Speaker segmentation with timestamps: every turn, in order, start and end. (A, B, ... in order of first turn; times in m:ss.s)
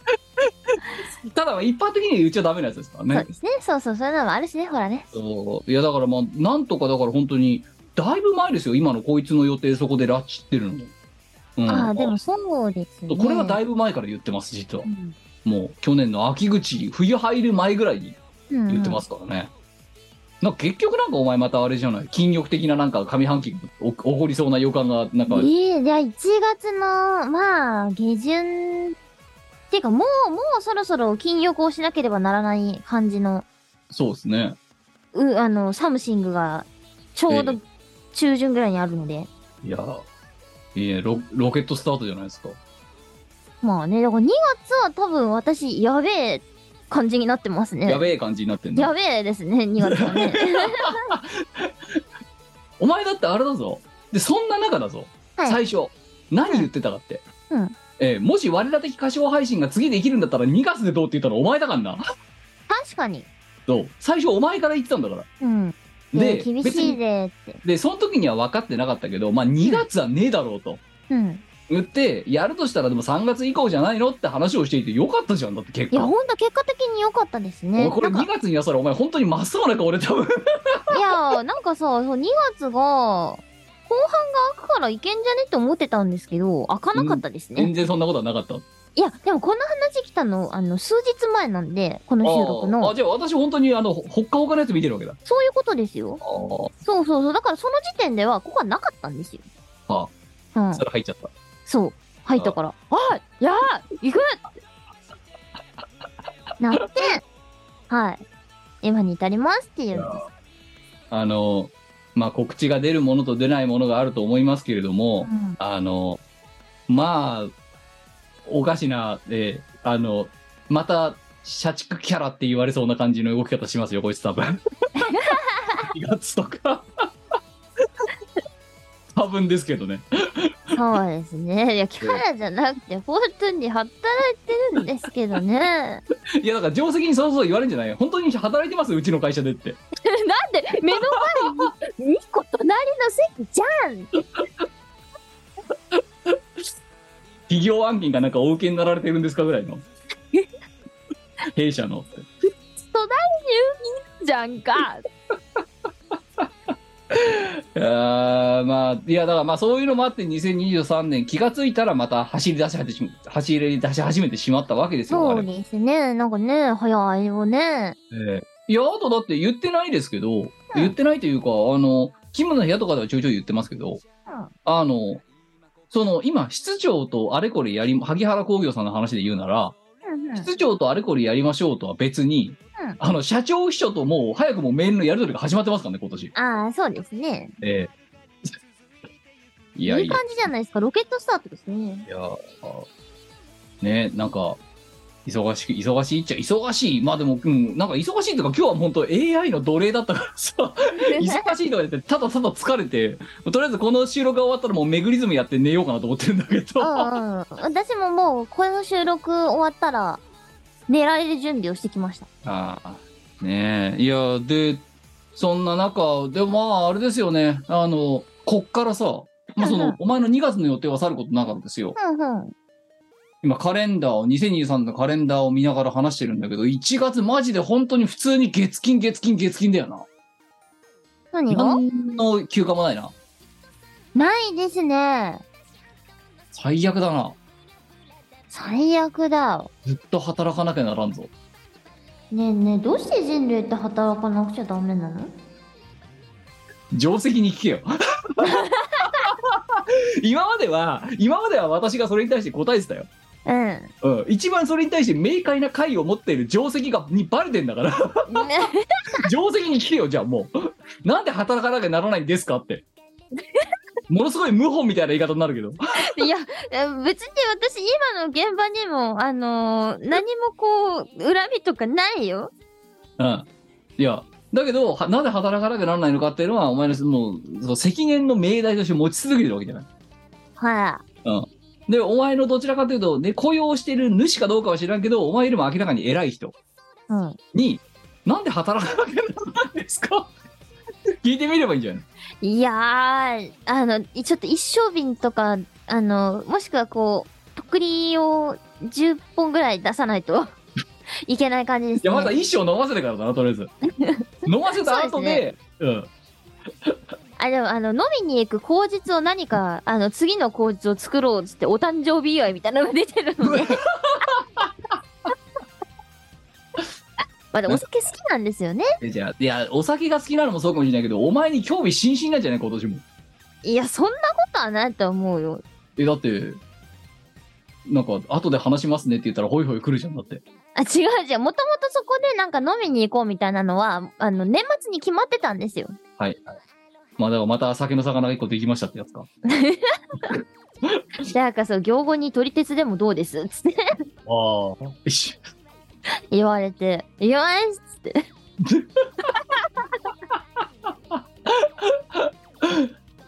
0:00.4-0:03.3 A
0:03.1-0:05.1 B
0:05.1-0:10.9 A
0:11.6-0:12.2 A
0:11.7-0:13.6 B
0:13.1-0:14.9 A
0:14.8-0:15.2 B
0:15.4-0:18.2 A
0:18.5-0:19.0 B
0:18.7-0:19.5 A
0:20.4-0:25.5 A
0:25.3-0:28.9 B
0:29.7-0:33.4 B
0:33.9-0:34.6 A
0:35.1-0:39.3 B
0:37.3-0:37.6 A
0:39.6-0:40.0 A
0:40.7-0:42.6 A
0:43.6-0:48.0 B
0:47.8-0:48.9 A
0:48.8-0:51.0 B
0:49.8-0:52.0 A
0:52.8-0:57.2 A
0:57.5-0:57.7 B
0:58.0-1:02.0 A
1:02.7-1:03.3 B
1:03.7-1:05.3 A
1:05.4-1:07.6 B
1:06.1-1:07.0 A
1:07.6-1:10.8 A
1:11.1-1:11.4 B
1:11.7-1:16.1 A
1:15.9-1:18.3 B
1:17.8-1:21.0 A
1:20.9-1:27.7 B
1:26.9-1:28.6 A
1:29.0-1:32.9 B
1:32.2-1:35.2 A
1:35.2-1:36.2 B
1:36.2-1:36.7 A
1:36.8-1:39.4 B
1:40.5-1:40.8 B
1:40.7-1:41.3 A
1:41.7-1:44.5 B
1:46.6-1:47.2 B
1:47.9-1:48.2 B
1:48.8-1:50.2 B
1:49.9-1:50.2 A
1:51.1-1:56.2 A
1:55.2-1:55.6 B
1:56.9-1:57.5 A
1:58.4-2:04.6 A
2:05.0-2:05.9 B
2:05.8-2:07.1 A
2:09.1-2:10.8 A
2:10.7-2:16.0 B
2:16.4-2:19.8 A
2:20.0-2:24.1 B
2:20.9-2:21.7 A
2:25.9-2:26.6 A
2:27.5-2:29.8 A
2:31.5-2:32.3 A
2:32.8-2:35.0 B
2:37.1-2:45.5 A
2:45.1-2:48.0 B
2:48.1-2:54.0 A
2:54.6-2:55.2 A
2:55.9-2:59.7 A
3:00.0-3:00.5 B
3:00.4-3:06.3 A
3:06.3-3:07.5 B
3:07.6-3:07.9 A
3:09.7-3:10.2 A
3:09.9-3:12.1 B
3:12.1-3:12.9 A
3:13.8-3:14.6 A
3:15.2-3:27.1 A
3:21.1-3:21.5 B
3:26.8-3:30.2 B
3:30.9-3:32.3 B
3:32.4-3:34.8 A
3:35.3-3:42.0 A
3:39.6-3:40.0 B
3:42.0-3:42.5 B
3:43.4-3:50.0 A
3:51.3-3:51.8 B
3:51.5-3:53.1 A
3:54.1-3:55.4 B
3:56.5-3:57.4 A
3:58.5-3:59.7 B
3:59.8-4:01.3 A
4:02.3-4:05.3 B
4:06.9-4:13.1 A
4:08.4-4:09.1 B
4:13.4-4:13.9 B
4:14.0-4:18.5 A
4:18.3-4:19.3 B
4:19.2-4:22.8 A
4:24.1-4:26.3 A
4:26.0-4:32.5 B
4:33.2-4:33.5 A
4:34.0-4:39.9 A
4:40.6-4:41.0 B
4:41.2-4:46.5 A
4:47.1-4:47.4 B
4:47.5-4:50.3 A
4:51.2-4:52.0 A
4:52.4-5:00.5 B
5:01.2-5:02.3 B
5:02.0-5:03.7 A
5:04.0-5:05.4 B
5:04.4-5:06.1 A
5:07.4-5:13.8 B
5:13.4-5:14.9 A
5:17.5-5:18.9 B
5:19.0-5:23.0 A
5:23.6-5:25.6 B
5:26.0-5:26.6 A
5:27.8-5:30.4 A
5:30.7-5:35.9 B
5:36.2-5:36.5 A
5:37.2-5:39.3 A
5:39.5-5:40.4 B
5:41.2-5:43.9 B
5:44.2-5:45.5 A
5:46.3-5:48.2 B
5:48.6-5:49.4 A
5:50.3-5:52.9 A